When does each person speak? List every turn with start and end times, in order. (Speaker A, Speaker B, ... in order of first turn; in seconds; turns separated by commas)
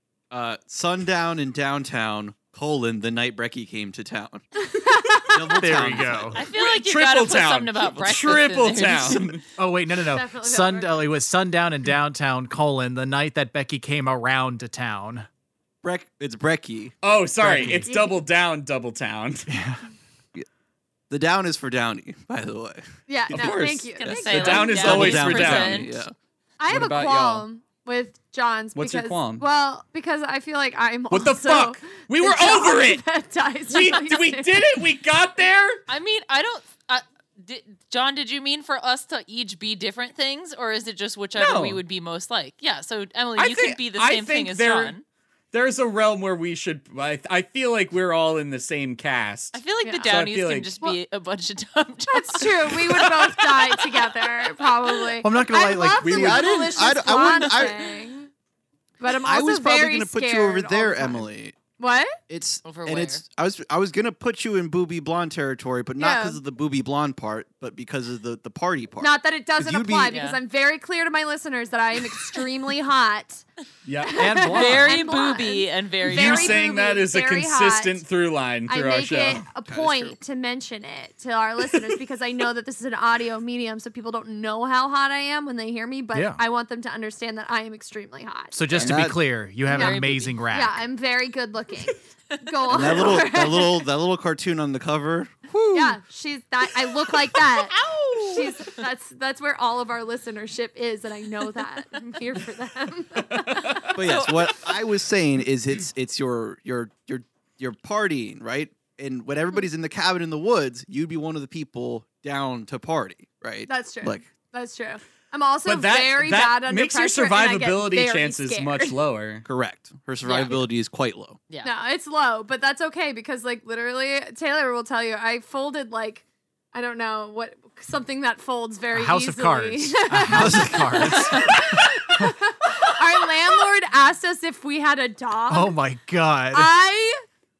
Speaker A: 0.3-4.4, Speaker B: 4.6-5.9, Speaker A: 5.2-6.4, Speaker C: 5.6-6.4, Speaker D: 6.3-9.4, Speaker E: 6.5-9.4, Speaker C: 9.6-15.3, Speaker B: 10.1-11.0, Speaker A: 15.8-16.9, Speaker E: 17.0-19.5, Speaker C: 17.4-17.9, Speaker B: 17.9-18.2, Speaker C: 19.5-19.8, Speaker A: 21.1-26.1, Speaker B: 23.1-24.9, Speaker E: 23.3-25.9, Speaker D: 23.9-26.0, Speaker B: 26.6-34.8, Speaker E: 26.7-27.4, Speaker E: 28.8-29.4, Speaker E: 31.1-33.0, Speaker E: 33.7-35.8, Speaker D: 35.9-45.0, Speaker E: 41.4-41.8, Speaker E: 43.4-44.9, Speaker E: 45.5-50.8, Speaker D: 49.5-53.4, Speaker B: 49.8-50.1, Speaker B: 52.1-58.3, Speaker C: 55.2-56.5, Speaker A: 56.0-57.8, Speaker E: 56.0-56.7, Speaker B: 59.0-62.2, Speaker A: 59.1-61.6, Speaker A: 62.3-70.2, Speaker D: 62.6-63.2, Speaker B: 66.0-66.4, Speaker B: 69.0-73.4, Speaker D: 70.1-70.4, Speaker E: 73.8-74.8, Speaker B: 74.0-78.0, Speaker C: 74.2-75.0, Speaker D: 74.5-76.6, Speaker E: 76.0-79.4, Speaker B: 78.7-88.5, Speaker A: 79.6-80.2, Speaker C: 86.1-86.4, Speaker C: 88.5-90.8, Speaker A: 88.7-89.2, Speaker D: 89.7-90.4, Speaker B: 89.7-93.8, Speaker D: 92.3-92.8, Speaker A: 92.7-95.9, Speaker B: 95.7-103.9, Speaker D: 97.5-98.8, Speaker E: 103.3-103.8, Speaker A: 103.9-114.2, Speaker D: 104.0-104.5, Speaker B: 113.7-119.0, Speaker E: 115.7-119.5, Speaker A: 119.5-121.4, Speaker D: 120.2-120.6, Speaker B: 121.6-135.8, Speaker C: 128.9-132.3, Speaker A: 130.3-131.4, Speaker C: 135.5-136.7, Speaker B: 136.5-137.2